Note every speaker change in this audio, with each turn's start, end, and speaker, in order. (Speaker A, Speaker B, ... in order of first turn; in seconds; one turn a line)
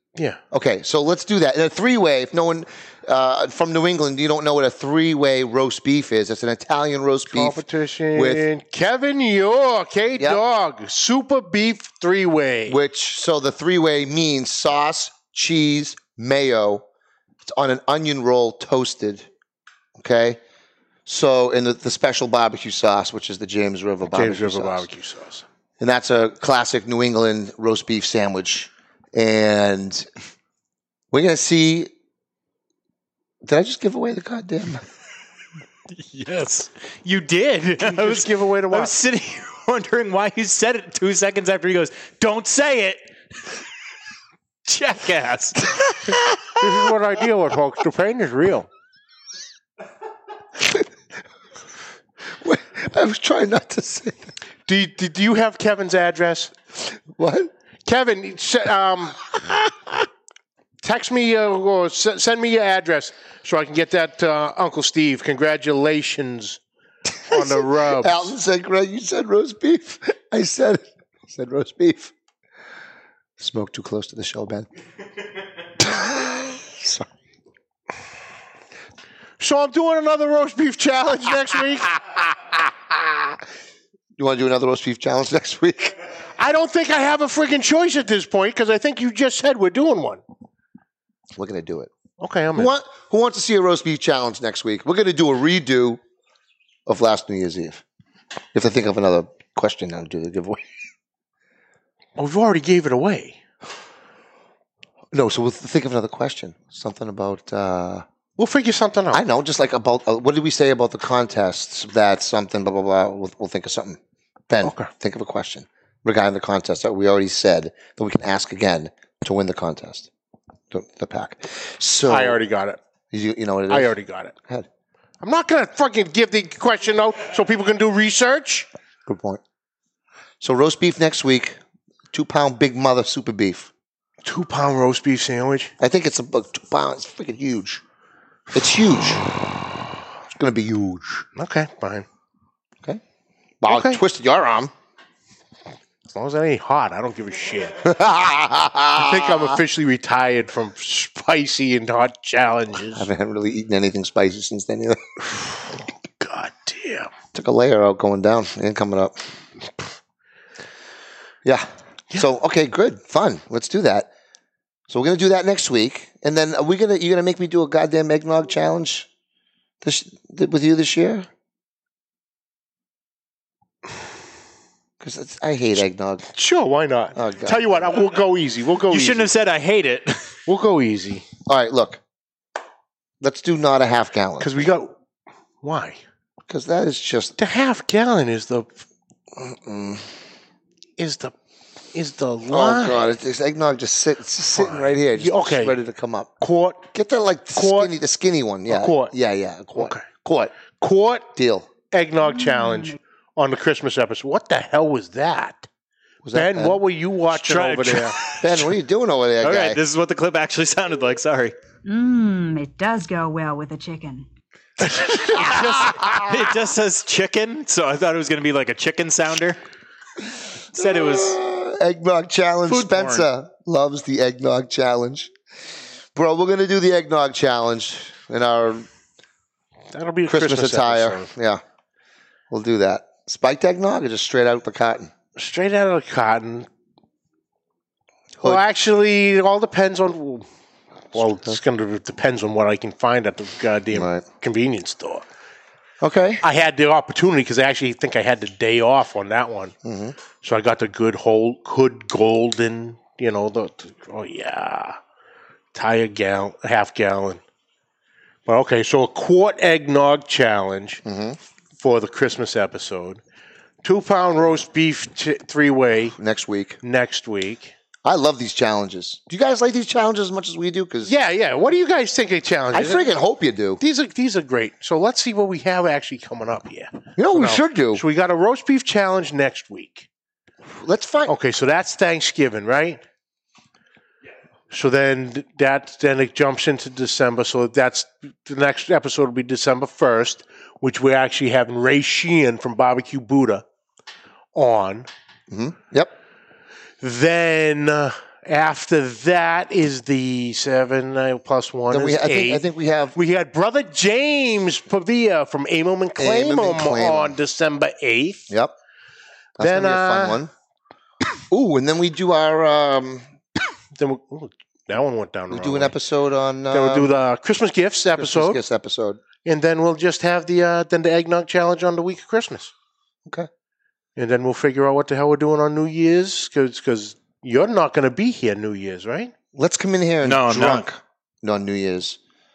Speaker A: 0.5-7.6
Speaker B: 7.3-12.8
Speaker A: 8.1-8.4
Speaker A: 12.7-16.8
Speaker A: 17.4-19.3
Speaker A: 20.0-20.4
Speaker A: 21.1-24.9
Speaker B: 24.1-25.4
Speaker A: 25.8-30.1
Speaker A: 31.1-31.9
Speaker A: 33.4-34.8
Speaker C: 35.9-43.1
Speaker B: 37.8-38.9
Speaker C: 44.6-46.3
Speaker B: 46.5-48.7
Speaker A: 50.6-50.9
Speaker A: 52.4-54.3
Speaker B: 54.7-56.5
Speaker A: 57.1-57.5
Speaker B: 57.8-59.3
Speaker B: 60.8-66.6
Speaker B: 67.3-68.3
Speaker A: 67.3-72.1
Speaker A: 73.4-74.7
Speaker A: 75.8-77.1
Speaker B: 79.4-82.0
Speaker A: 84.2-86.0
Speaker B: 86.4-90.2
Speaker A: 91.3-91.9
Speaker B: 92.2-92.7
Speaker A: 92.5-96.0
Speaker A: 96.9-97.8
Speaker A: 98.5-100.6
Speaker B: 102.2-103.4
Speaker A: 105.1-108.0
Speaker B: 108.4-109.2
Speaker A: 109.1-120.1
Speaker B: 114.6-114.9
Speaker A: 120.7-122.4
Speaker B: 122.0-122.8
Speaker A: 123.1-124.7
Speaker B: 123.7-124.3
Speaker B: 125.2-128.7
Speaker A: 129.1-129.4
Speaker A: 130.4-131.6
Speaker A: 132.1-133.7
Speaker B: 134.2-135.7
Speaker A: 135.8-137.8
Speaker A: 138.5-139.3
Speaker A: 140.3-141.2
Speaker B: 141.3-142.1
Speaker A: 143.6-144.7
Speaker B: 143.7-144.0
Speaker B: 146.1-147.9
Speaker A: 147.8-149.6
Speaker B: 148.9-153.1
Speaker A: 152.9-155.0
Speaker B: 156.2-157.1
Speaker A: 157.3-159.2
Speaker A: 161.4-164.1
Speaker A: 164.9-169.1
Speaker A: 169.8-171.3
Speaker A: 175.0-176.3
Speaker B: 176.3-179.3
Speaker A: 177.1-177.9
Speaker C: 178.9-180.3
Speaker B: 180.5-181.2
Speaker A: 181.5-182.0
Speaker A: 183.2-184.6
Speaker B: 184.4-184.9
Speaker B: 185.6-186.0
Speaker A: 186.5-187.3
Speaker B: 187.4-188.8
Speaker A: 189.4-190.1
Speaker B: 191.0-191.3
Speaker B: 191.9-193.1
Speaker A: 192.5-196.3
Speaker B: 194.5-195.8
Speaker B: 196.4-196.9
Speaker A: 196.9-200.5
Speaker B: 197.5-197.9
Speaker B: 198.7-199.1
Speaker B: 199.7-200.0
Speaker B: 200.8-201.3
Speaker A: 201.3-201.7
Speaker B: 201.9-205.7
Speaker D: 202.2-203.0
Speaker A: 206.2-206.8
Speaker B: 206.3-208.2
Speaker C: 207.3-208.7
Speaker A: 208.4-209.8
Speaker C: 209.4-211.5
Speaker D: 211.8-214.3
Speaker B: 214.9-215.6
Speaker C: 215.1-219.6
Speaker A: 215.4-216.2
Speaker C: 220.7-221.4
Speaker A: 220.8-225.3
Speaker A: 226.1-228.9
Speaker B: 229.9-231.3
Speaker A: 230.3-231.6
Speaker A: 232.5-235.1
Speaker B: 235.3-236.7
Speaker B: 238.4-240.4
Speaker B: 241.1-245.2
Speaker A: 243.9-244.2
Speaker A: 246.0-246.4
Speaker B: 246.4-249.7
Speaker A: 249.8-250.1
Speaker B: 250.4-255.0
Speaker B: 255.7-257.4
Speaker B: 258.4-261.0
Speaker A: 261.0-261.4
Speaker B: 261.8-263.2
Speaker B: 263.8-266.1
Speaker A: 266.2-266.8
Speaker B: 266.8-267.7
Speaker A: 268.0-271.1
Speaker B: 271.1-273.1
Speaker A: 272.7-273.8
Speaker B: 273.8-280.1
Speaker A: 277.2-278.0
Speaker A: 280.8-281.3
Speaker B: 281.3-283.0
Speaker B: 284.7-293.6
Speaker B: 294.5-295.1
Speaker A: 295.5-296.1
Speaker B: 297.0-308.5
Speaker A: 301.9-303.1
Speaker A: 306.2-307.4
Speaker A: 309.6-310.5
Speaker B: 309.6-310.4
Speaker A: 311.5-313.2
Speaker B: 313.9-315.9
Speaker A: 315.5-317.1
Speaker B: 316.7-318.6
Speaker A: 318.2-319.2
Speaker B: 319.4-322.7
Speaker B: 324.1-329.3
Speaker A: 329.5-332.2
Speaker C: 330.2-330.9